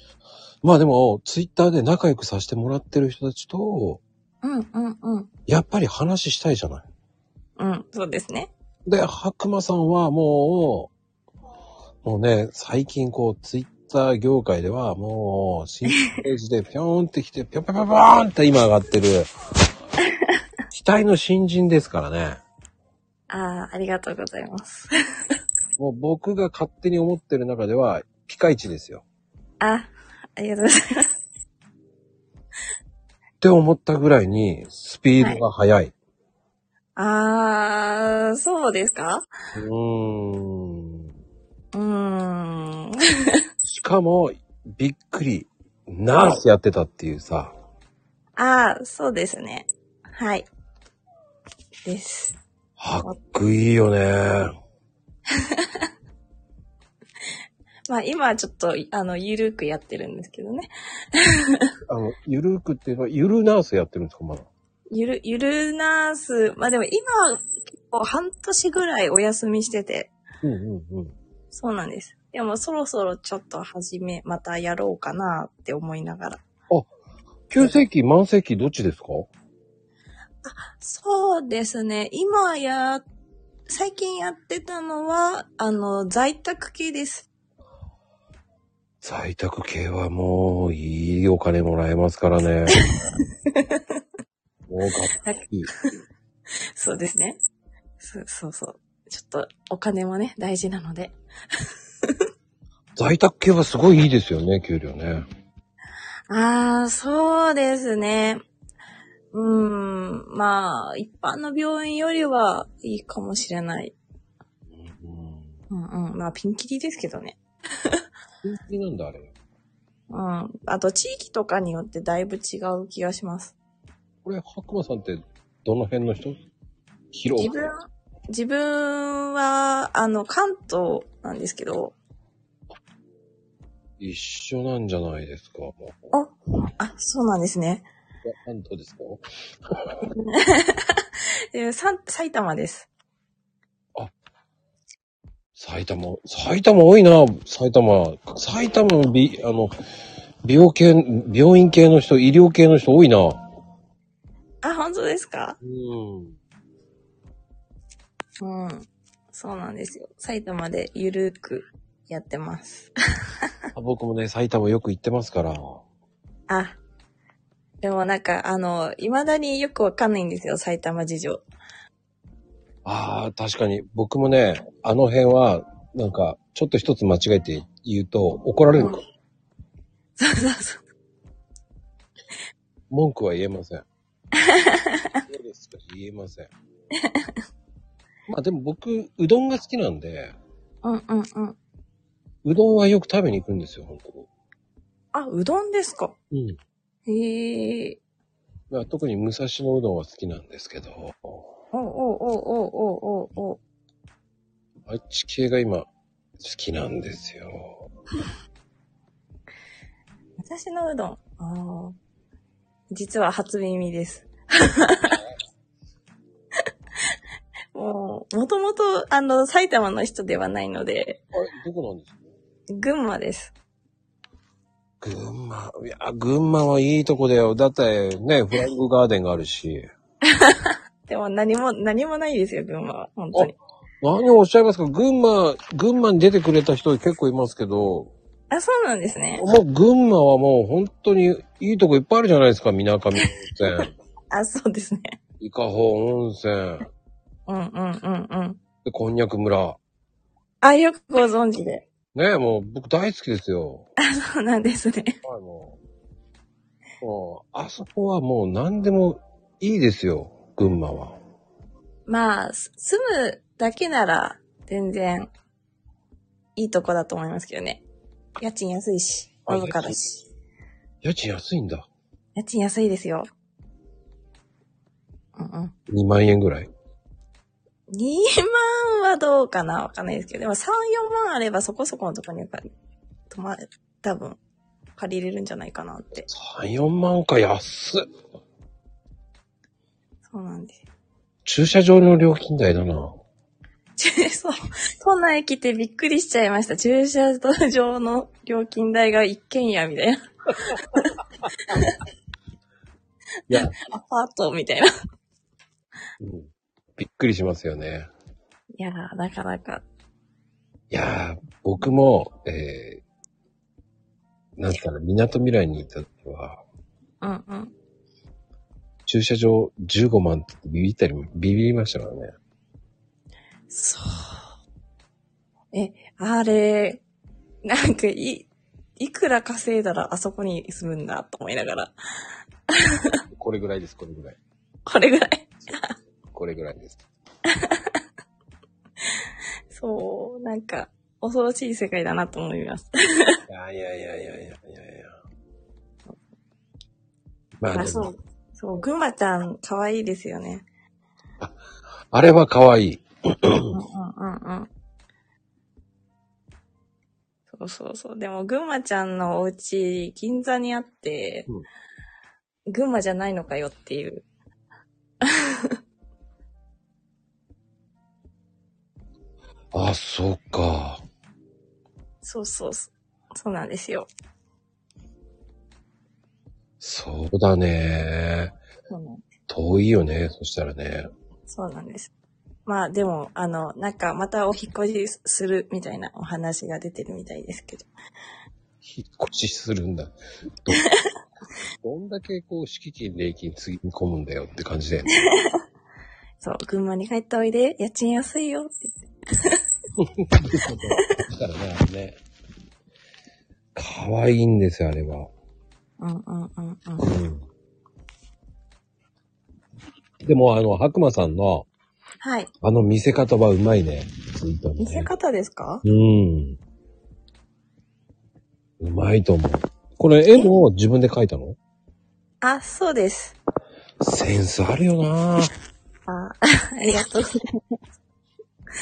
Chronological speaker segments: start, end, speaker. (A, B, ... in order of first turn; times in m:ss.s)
0:00.6-0:04.0 A
0:04.4-0:05.3 B
0:05.5-0:06.8 A
0:07.6-0:08.5 B
0:08.9-0:10.9 A
0:12.0-0:19.3 A
0:20.7-0:22.4 A
0:23.3-0:24.9 B
0:25.8-0:29.0 A
0:29.6-0:31.1 B
0:33.4-0:35.9 A
0:37.0-0:39.2 B
0:39.6-0:41.1 A
0:41.7-0:43.4 B
0:43.6-0:47.5 A
0:48.4-0:50.5 B
0:51.9-0:52.4 B
0:52.8-0:54.5 A
0:57.9-1:01.7 B
1:01.9-1:04.5 A
1:04.9-1:10.1 B
1:10.4-1:11.1 A
1:11.5-1:16.4 B
1:17.5-1:19.3 A
1:20.4-1:23.0 B
1:23.7-1:27.3 B
1:29.0-1:32.8 A
1:33.6-1:33.8 B
1:34.7-1:35.7 A
1:36.8-1:37.4 B
1:38.0-1:41.2 B
1:43.0-1:45.2 A
1:46.3-1:48.4 B
1:49.3-1:54.0 B
1:54.7-1:55.6 A
1:55.7-1:57.4 B
1:58.4-1:59.3 A
2:00.1-2:03.6 B
2:04.2-2:06.4 A
2:07.1-2:07.7 A
2:07.4-2:12.0 B
2:14.0-2:16.0 A
2:16.1-2:17.8 B
2:18.2-2:19.2 A
2:20.1-2:22.9 B
2:25.6-2:29.7 A
2:30.4-2:33.4 A
2:34.6-2:35.6 B
2:35.6-2:36.4 A
2:38.4-2:42.9 B
2:43.7-2:45.8 A
2:46.5-2:46.8 B
2:47.8-2:51.4 B
2:52.8-2:59.0 A
3:00.2-3:00.8 B
3:02.9-3:03.8 A
3:04.4-3:05.2 B
3:05.3-3:06.5 A
3:07.1-3:07.3 B
3:08.3-3:10.4 A
3:10.8-3:11.6 B
3:12.4-3:14.3 A
3:15.1-3:16.2 B
3:16.3-3:16.6 A
3:17.1-3:18.0 B
3:18.7-3:21.4 A
3:21.7-3:23.6 B
3:24.9-3:25.9 A
3:26.4-3:27.8 A
3:30.4-3:32.0 B
3:32.9-3:35.2 B
3:37.7-3:41.2 B
3:41.3-3:42.2 A
3:42.7-3:43.5 B
3:45.0-3:49.9 A
3:50.4-3:53.5 B
3:53.3-3:58.1 A
3:58.5-3:59.4 B
3:59.4-4:03.9 A
4:04.3-4:05.2 B
4:05.4-4:06.9 A
4:07.5-4:08.6 B
4:08.8-4:09.8 A
4:10.6-4:11.8 B
4:12.1-4:13.9 A
4:14.0-4:15.2 B
4:15.2-4:15.8 A
4:17.0-4:21.2 A
4:22.1-4:25.3 B
4:26.6-4:27.8 B
4:28.4-4:30.2 B
4:29.5-4:30.0 A
4:31.0-4:31.9 A
4:32.4-4:33.3 B
4:35.4-4:35.7 B
4:35.9-4:36.7 A
4:37.9-4:42.7 B
4:43.3-4:44.4 B
4:45.0-4:46.3 B
4:46.3-4:48.1 A
4:50.3-4:50.8 B
4:51.4-4:53.2 A
4:54.0-5:01.1 B
5:01.7-5:02.0 B
5:03.5-5:04.9 B
5:06.2-5:08.1 A
5:08.8-5:09.8 B
5:10.9-5:13.0 A
5:14.6-5:16.6 A
5:17.2-5:17.7 B
5:19.1-5:22.3 A
5:23.7-5:24.4 B
5:25.7-5:27.0 B
5:27.6-5:31.9 B
5:32.8-5:33.1 B
5:33.3-5:34.4 A
5:34.9-5:35.9 B
5:36.3-5:37.0 A
5:37.6-5:37.8 B
5:39.7-5:43.4 B
5:43.5-5:45.1 A
5:47.6-5:48.1 A
5:47.7-5:50.6 B
5:52.1-5:53.8 A
5:53.7-5:54.7 B
5:57.5-6:01.5 B
6:02.7-6:04.2 B
6:09.7-6:11.0 A
6:12.2-6:14.1 B
6:16.8-6:18.6 A
6:18.9-6:19.2 B
6:19.5-6:21.1 A
6:21.5-6:22.1 B
6:22.7-6:27.9 B
6:28.8-6:30.1 A
6:31.8-6:35.1 A
6:36.4-6:39.6 B
6:40.0-6:42.2 A
6:43.8-6:45.3 A
6:46.0-6:47.1 B
6:47.0-6:47.4 A
6:50.2-6:51.7 A
6:52.2-6:52.5 B
6:52.6-6:55.1 A
6:54.8-6:55.8 B
6:55.8-6:56.6 A
6:58.8-7:01.6 A
7:02.4-7:03.4 B
7:04.0-7:05.5 A
7:06.1-7:07.4 B